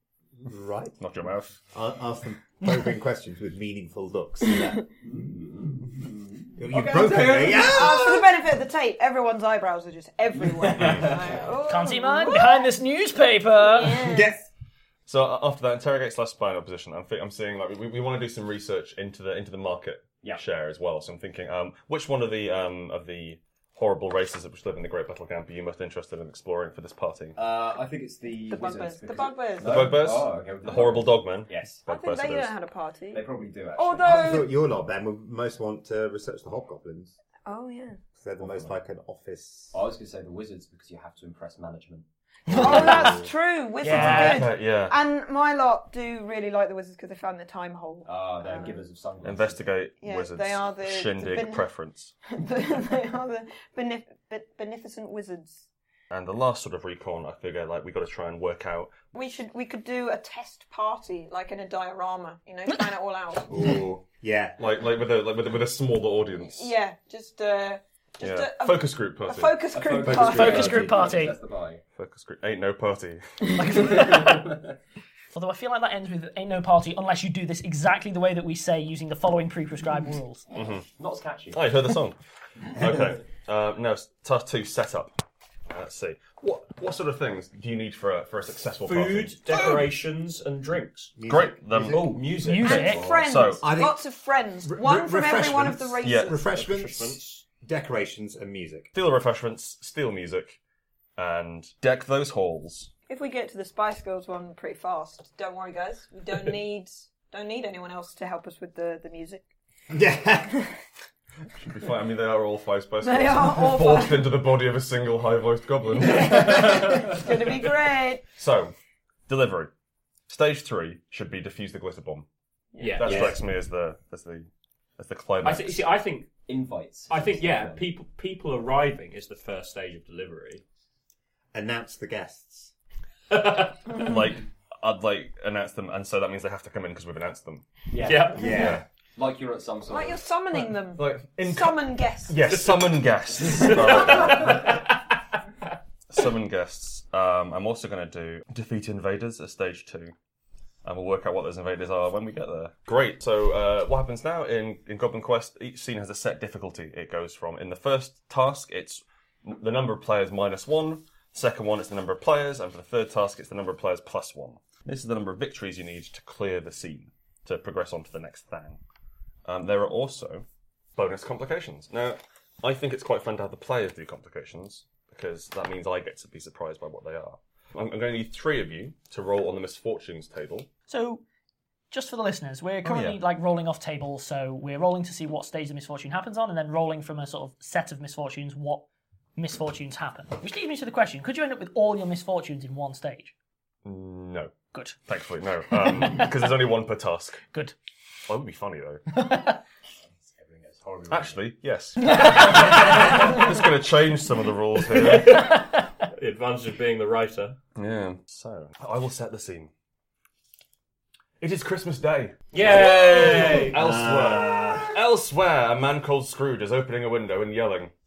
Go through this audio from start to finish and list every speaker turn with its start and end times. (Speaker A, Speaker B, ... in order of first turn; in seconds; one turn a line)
Speaker A: 0.4-0.9
Speaker B: 1.0-1.6
Speaker A: 1.7-4.7
Speaker C: 5.0-7.9
Speaker A: 6.5-8.2
Speaker D: 7.5-12.6
Speaker C: 10.3-11.4
Speaker B: 10.7-11.1
Speaker E: 11.7-14.1
Speaker D: 13.7-14.4
Speaker A: 14.0-14.4
Speaker B: 15.1-27.4
Speaker C: 27.4-31.8
Speaker D: 28.5-29.9
Speaker B: 29.6-32.5
Speaker D: 31.9-34.5
Speaker C: 33.1-34.4
Speaker A: 34.0-37.2
Speaker D: 37.5-38.0
Speaker A: 38.2-39.8
Speaker C: 39.7-42.0
Speaker D: 42.5-48.8
Speaker C: 42.6-43.3
Speaker E: 43.8-44.4
Speaker B: 43.9-45.0
Speaker C: 48.0-49.8
Speaker B: 49.2-52.1
Speaker D: 50.0-51.7
Speaker D: 52.3-55.6
Speaker B: 56.1-58.9
Speaker D: 59.1-63.6
Speaker A: 63.5-64.6
Speaker B: 63.5-64.0
Speaker B: 64.6-66.7
Speaker D: 66.5-70.9
Speaker B: 68.2-69.6
Speaker C: 69.7-71.8
Speaker A: 70.0-70.8
Speaker E: 70.3-71.3
Speaker B: 71.9-73.2
Speaker E: 73.6-74.4
Speaker C: 73.8-74.7
Speaker E: 75.3-80.5
Speaker B: 80.5-80.8
Speaker C: 80.6-81.7
Speaker B: 81.5-82.2
Speaker B: 82.7-85.1
Speaker B: 85.7-89.6
Speaker F: 88.8-91.2
Speaker A: 91.2-92.0
Speaker B: 91.2-93.7
Speaker F: 91.9-92.8
Speaker E: 92.4-93.0
Speaker D: 92.6-96.4
Speaker A: 93.6-94.0
Speaker A: 94.6-98.9
Speaker B: 96.0-96.4
Speaker F: 96.5-97.2
Speaker B: 98.9-100.6
Speaker B: 101.2-102.9
Speaker D: 103.1-109.4
Speaker A: 109.9-110.6
Speaker B: 111.6-116.8
Speaker D: 113.0-114.4
Speaker D: 116.0-118.2
Speaker B: 118.3-118.7
Speaker B: 119.3-119.7
Speaker B: 120.3-122.2
Speaker F: 122.8-123.4
Speaker B: 123.0-125.8
Speaker C: 123.0-123.4
Speaker F: 125.4-126.4
Speaker C: 126.5-127.9
Speaker F: 127.1-130.6
Speaker A: 131.5-132.7
Speaker F: 133.3-133.8
Speaker B: 133.9-137.6
Speaker C: 137.9-140.2
Speaker F: 138.0-138.6
Speaker A: 138.3-138.8
Speaker B: 138.5-138.8
Speaker D: 139.9-142.4
Speaker B: 141.0-144.8
Speaker F: 143.5-144.9
Speaker B: 146.1-150.1
Speaker B: 150.8-168.8
Speaker B: 169.4-180.7
Speaker E: 180.9-181.2
Speaker E: 181.9-188.8
Speaker B: 182.8-183.2
Speaker E: 189.4-193.3
Speaker B: 193.8-194.5
Speaker E: 194.7-195.0
Speaker B: 195.0-197.4
Speaker B: 198.3-199.0
Speaker E: 199.2-199.5
Speaker C: 200.0-201.5
Speaker B: 201.1-205.5
Speaker F: 204.9-207.6
Speaker B: 207.8-209.7
Speaker B: 211.4-217.9
Speaker F: 212.5-213.8
Speaker A: 213.3-214.9